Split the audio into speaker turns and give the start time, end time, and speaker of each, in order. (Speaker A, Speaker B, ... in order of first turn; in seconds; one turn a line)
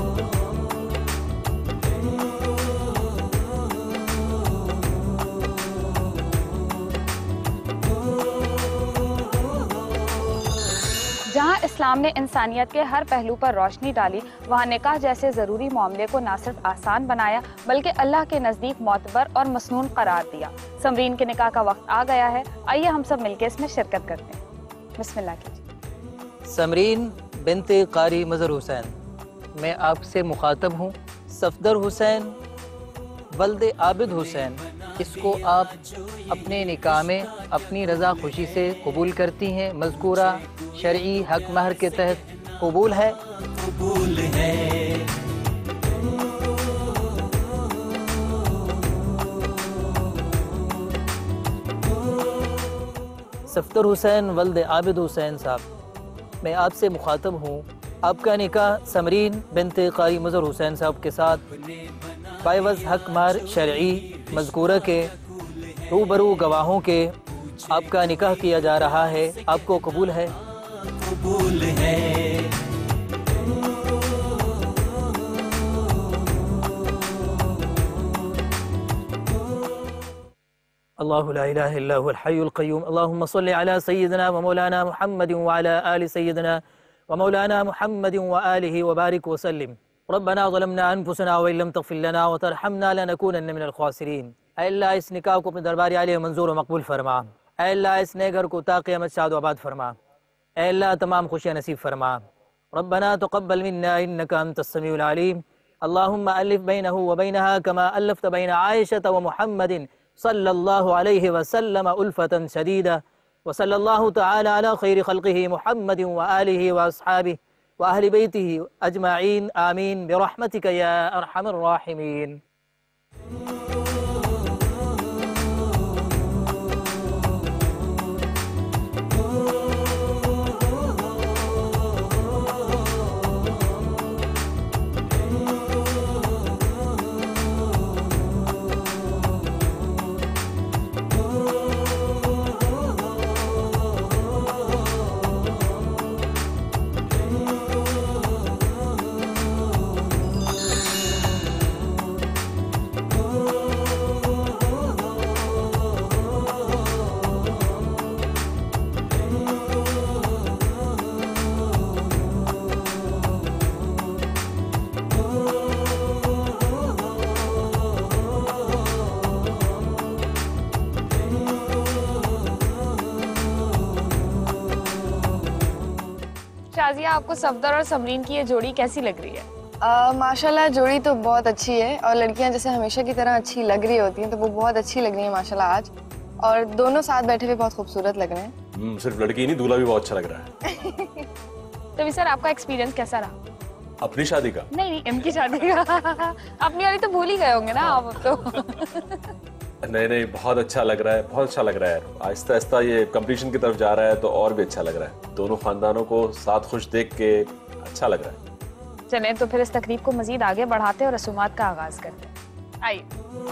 Speaker A: 11.3-24.4
Speaker A: 25.0-25.6
Speaker B: 26.5-28.9
Speaker B: 29.6-32.4
Speaker B: 33.3-35.7
Speaker C: 33.9-39.2
Speaker B: 36.3-43.2
Speaker C: 39.7-45.1
Speaker B: 53.5-55.6
Speaker B: 56.4-61.4
Speaker C: 61.4-66.6
Speaker B: 62.4-65.1
Speaker B: 65.9-67.1
Speaker C: 67.2-72.6
Speaker B: 67.7-70.3
Speaker B: 81.0-100.0
Speaker B: 100.6-122.4
Speaker A: 176.7-179.5
Speaker D: 179.8-188.5
Speaker E: 188.7-190.5
Speaker D: 190.8-191.1
Speaker A: 192.0-193.4
Speaker E: 194.0-194.7
Speaker A: 194.7-199.3
Speaker E: 199.8-208.4
Speaker A: 209.1-213.1